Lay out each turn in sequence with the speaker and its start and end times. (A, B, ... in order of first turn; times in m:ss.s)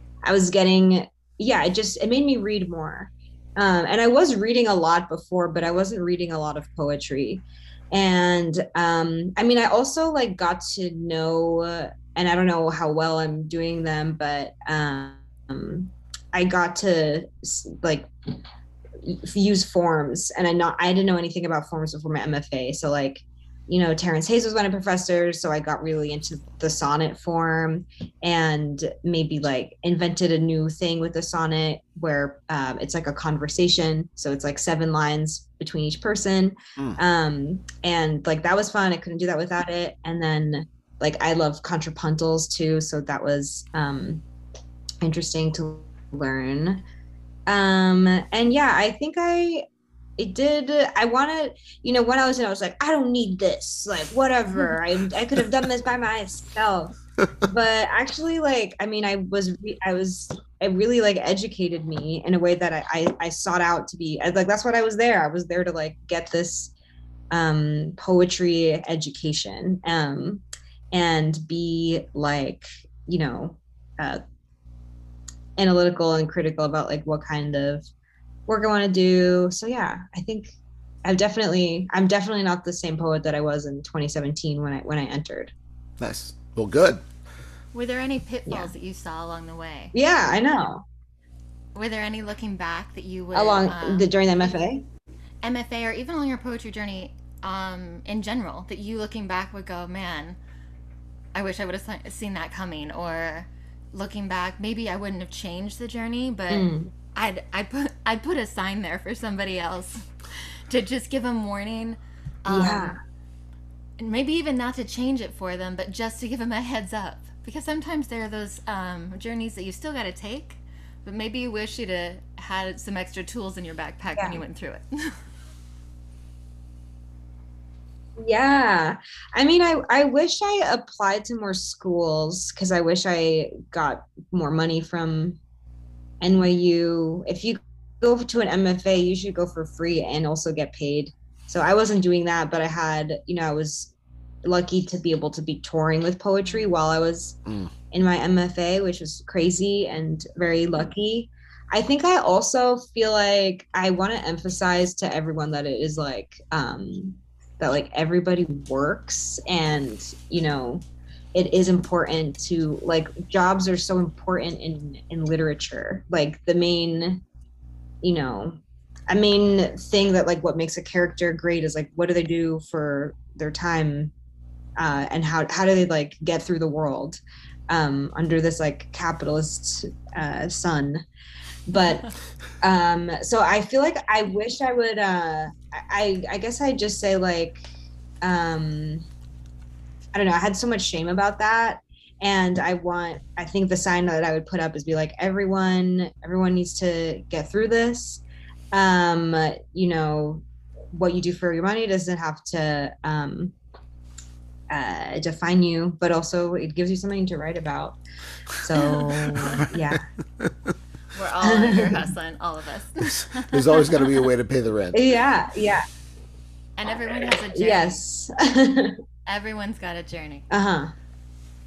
0:00.2-0:18.1 A
0:19.0-0:44.2 A
0:45.0-0:46.8 A
0:47.5-0:49.7 A
0:50.2-0:57.0 A
0:57.5-1:06.7 A
1:07.3-1:14.2 A
1:15.6-1:17.9 A
1:18.5-1:25.5 A
1:26.0-1:27.0 B
1:27.7-1:29.9 C
1:28.5-1:28.7 A
1:29.9-1:30.8 A
1:31.8-1:34.1 C
1:33.3-1:34.8 A
1:35.4-1:40.4 C
1:41.3-1:53.0 C
1:46.5-1:46.9 A
1:52.5-1:53.0 A
1:54.0-2:05.2 C
2:04.2-2:04.4 A
2:08.2-2:15.4 A
2:16.2-2:27.4 A
2:27.9-2:47.2 A
2:48.0-2:48.6 A
2:49.1-2:54.1 A
2:54.8-3:01.0 A
3:01.7-3:07.6 A
3:08.2-3:09.1 A
3:10.1-3:23.6 A
3:24.7-3:28.0 A
3:28.6-3:30.0 A
3:29.0-3:30.7 B
3:31.1-3:34.0 C
3:31.4-3:32.0 A
3:33.5-3:35.2 B
3:34.9-3:35.8 A
3:36.8-3:38.0 C
3:37.5-3:39.0 A
3:39.3-3:40.5 C
3:40.5-3:40.9 A